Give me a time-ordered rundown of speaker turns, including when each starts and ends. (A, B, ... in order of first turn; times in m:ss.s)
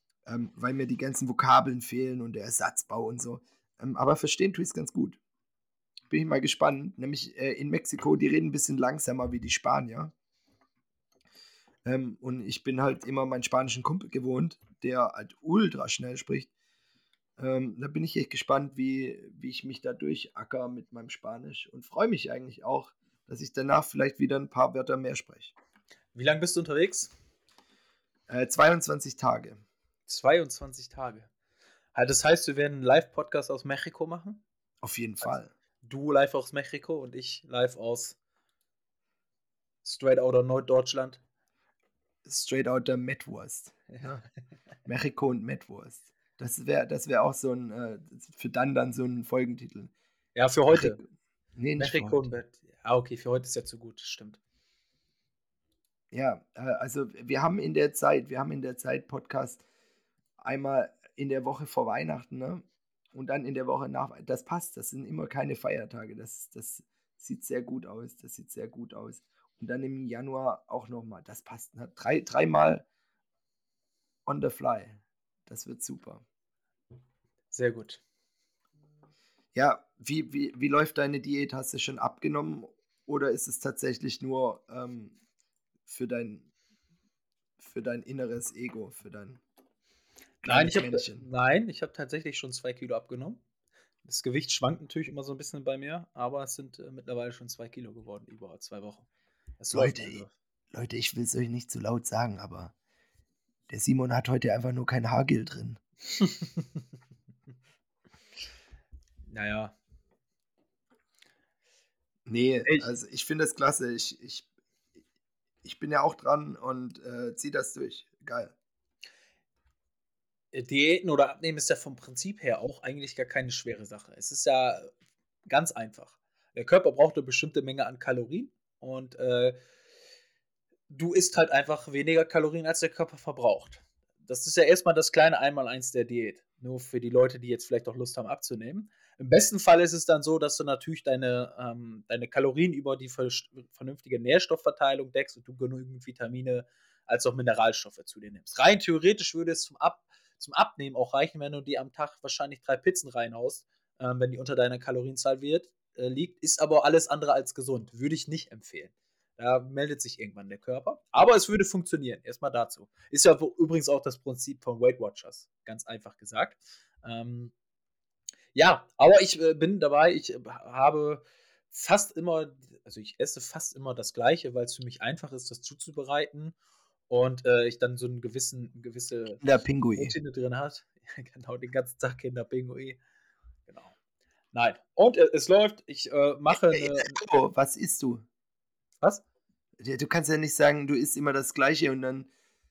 0:00.2-0:05.2 A
0:06.1-0:10.1 A
0:11.8-0:16.5 A
0:17.4-0:25.5 A
0:26.1-0:27.1 B
0:28.3-0:29.6 A
0:30.1-0:31.3 B
0:31.9-0:34.4 B
0:34.8-0:35.5 A
0:35.8-0:38.2 B
0:39.8-0:41.2 B
0:42.2-0:44.2 A
0:44.8-0:49.9 A
0:50.3-0:51.0 B
0:50.7-0:51.0 A
0:51.6-0:52.2 A
0:51.8-0:54.4 B
0:56.1-0:59.6 A
1:00.4-1:12.8 A
1:14.2-1:16.2 A
1:17.5-1:18.0 B
1:19.5-1:25.2 A
1:25.9-1:26.5 A
1:27.6-1:29.4 A
1:30.4-1:31.2 A
1:30.4-1:33.4 B
1:34.0-1:39.0 B
1:39.6-1:40.3 B
1:39.7-1:42.7 A
1:43.7-1:45.8 A
1:49.3-1:49.7 B
1:52.2-1:54.4 A
1:55.6-1:58.5 A
2:00.5-2:04.9 B
2:05.5-2:09.6 B
2:10.9-2:47.5 B
2:48.6-2:56.6 B
2:57.1-2:59.4 B
2:59.4-3:00.2 A
2:59.9-3:03.0 B
3:03.7-3:03.9 B
3:04.5-3:07.2 B
3:06.5-3:08.2 A
3:09.8-3:12.3 A